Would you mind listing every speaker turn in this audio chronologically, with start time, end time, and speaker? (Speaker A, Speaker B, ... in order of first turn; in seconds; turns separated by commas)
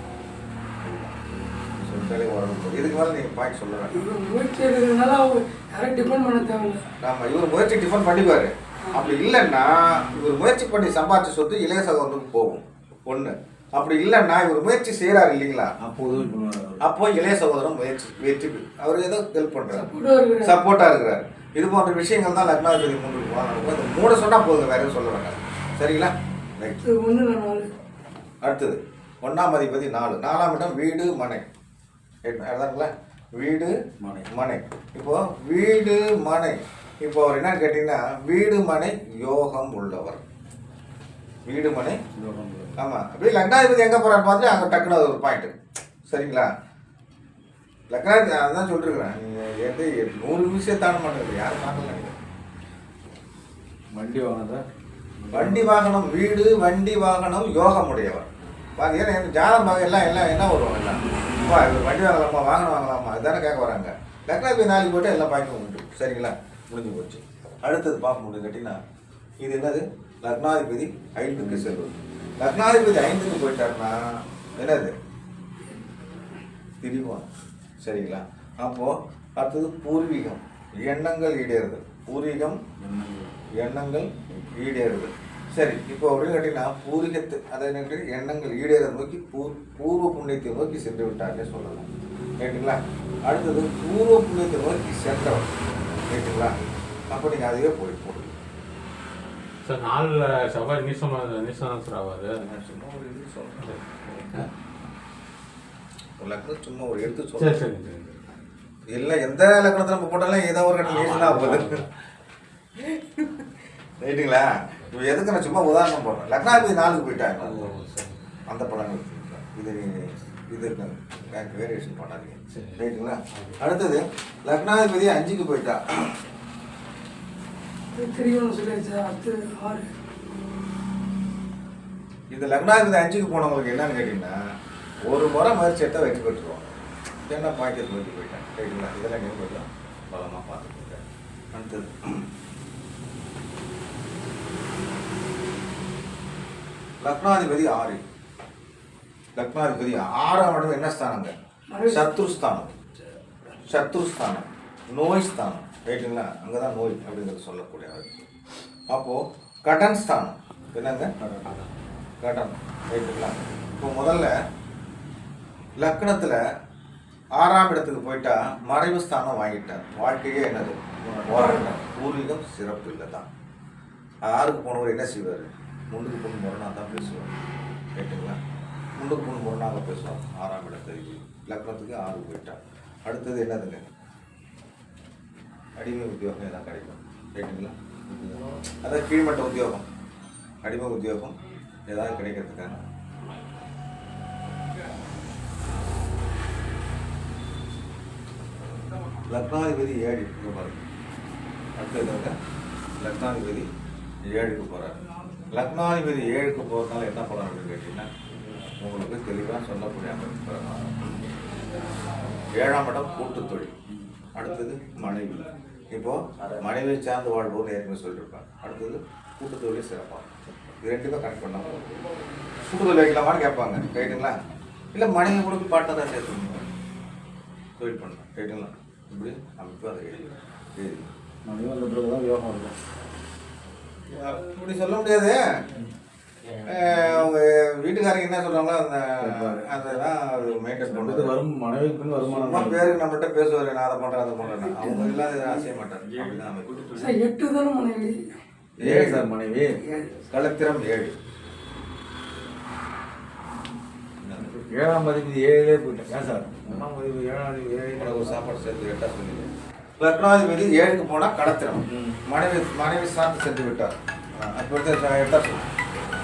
Speaker A: 0.8-4.1, Speaker B: 3.9-6.8, Speaker A: 7.0-15.7, Speaker C: 15.8-16.8, Speaker A: 16.8-19.9, Speaker B: 19.7-20.5, Speaker A: 20.4-26.8, Speaker B: 26.8-27.7, Speaker A: 28.4-31.5, Speaker A: 32.2-33.8, Speaker C: 34.0-34.3, Speaker A: 34.3-40.2, Speaker A: 41.5-42.0, Speaker C: 42.1-42.8, Speaker A: 42.8-45.5, Speaker A: 46.1-46.5, Speaker A: 47.9-52.1, Speaker C: 53.9-54.7, Speaker C: 55.2-55.8, Speaker A: 55.3-68.8, Speaker A: 69.4-74.0, Speaker C: 71.3-71.8, Speaker A: 74.5-74.9, Speaker A: 76.8-77.3, Speaker A: 77.8-82.6, Speaker C: 82.8-83.3, Speaker A: 83.6-91.9, Speaker A: 92.4-95.5, Speaker A: 96.1-96.5, Speaker A: 97.1-98.3, Speaker D: 99.7-102.4, Speaker A: 102.4-103.7, Speaker D: 103.6-104.5, Speaker A: 106.2-107.6, Speaker D: 107.3-108.2, Speaker A: 108.9-111.8, Speaker D: 110.8-111.9, Speaker A: 112.8-113.5, Speaker A: 114.0-117.7, Speaker D: 116.5-118.2, Speaker A: 118.5-126.1, Speaker D: 122.5-122.8, Speaker D: 123.3-123.6, Speaker B: 127.9-129.9, Speaker A: 132.3-134.4, Speaker A: 135.1-136.7, Speaker A: 137.3-142.3, Speaker A: 147.0-148.0, Speaker A: 149.4-151.3, Speaker B: 151.7-152.1, Speaker A: 151.8-152.7, Speaker A: 153.7-158.2, Speaker A: 158.9-161.1, Speaker C: 161.2-161.6, Speaker A: 162.2-164.3, Speaker A: 165.8-166.4, Speaker A: 167.4-173.3, Speaker B: 171.4-171.6, Speaker A: 174.2-177.3, Speaker A: 178.0-178.4, Speaker A: 179.0-183.9, Speaker A: 185.8-187.7, Speaker C: 188.1-188.4, Speaker A: 188.8-189.8, Speaker A: 190.6-191.3, Speaker A: 191.9-192.8, Speaker A: 199.3-200.8, Speaker A: 201.8-202.3, Speaker A: 203.0-203.7, Speaker A: 204.3-205.0, Speaker A: 205.5-208.1, Speaker A: 208.8-211.2, Speaker A: 212.5-213.7, Speaker A: 214.3-221.8, Speaker A: 222.6-224.4, Speaker A: 224.9-226.7, Speaker A: 227.8-230.2, Speaker A: 230.8-231.1, Speaker C: 231.5-232.7, Speaker A: 234.0-235.6, Speaker D: 236.7-237.2, Speaker A: 236.7-241.3, Speaker C: 239.2-240.0, Speaker C: 240.9-242.9, Speaker A: 242.2-247.0, Speaker C: 244.6-247.1, Speaker B: 247.0-248.3, Speaker A: 248.8-249.2, Speaker C: 248.8-249.7, Speaker B: 249.8-250.2, Speaker A: 250.3-251.2, Speaker A: 254.2-254.5, Speaker C: 254.4-258.5, Speaker A: 258.0-265.7, Speaker C: 261.9-262.2